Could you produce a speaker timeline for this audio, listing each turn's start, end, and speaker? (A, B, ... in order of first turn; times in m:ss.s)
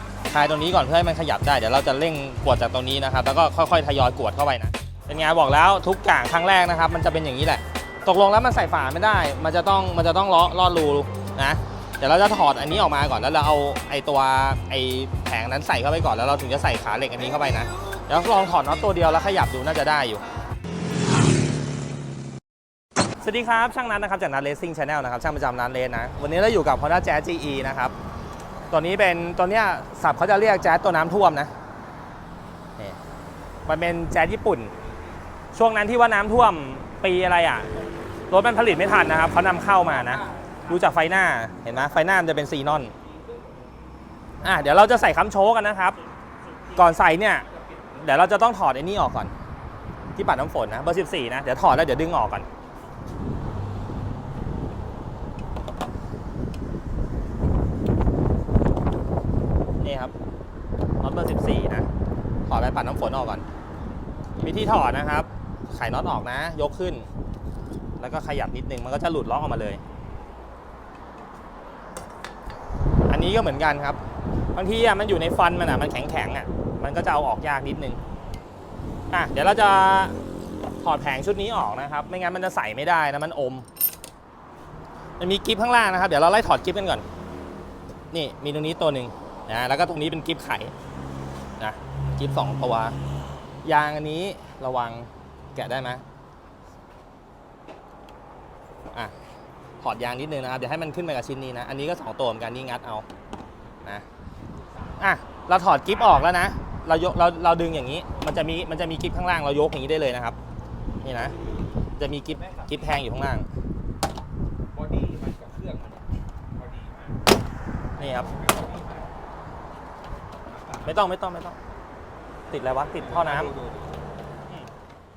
0:00.3-0:20.2 A
0:23.2-0:27.9 A
0:28.7-0:31.5 A
0:33.6-0:34.7 A
0:35.5-0:37.7 A
0:38.3-0:42.9 A
0:39.8-0:40.7 B
0:41.9-0:42.2 B
0:42.9-0:43.7 B
0:44.4-0:46.0 A
0:46.7-0:49.3 A
0:47.5-0:48.2 B
0:50.2-0:52.5 A
0:59.8-1:00.1 A
1:01.0-1:01.9 A
1:02.5-1:03.4 A
1:04.4-1:07.1 A
1:08.0-1:09.8 A
1:13.1-1:14.0 A
1:14.6-1:18.0 A
1:19.1-1:20.2 A
1:20.8-1:23.7 A
1:25.2-1:27.0 A
1:28.1-1:30.7 A
1:31.6-1:33.0 A
1:33.6-1:36.0 A
1:39.8-1:43.1 A
1:45.0-1:50.4 A
1:51.0-1:51.3 A
1:52.0-1:53.5 A
1:52.3-1:53.0 B
1:54.7-1:57.2 B
1:58.0-1:58.3 A
1:58.0-1:59.1 B
2:00.4-2:01.0 B
2:00.8-2:01.6 A
2:02.5-2:03.5 A
2:02.9-2:04.1 B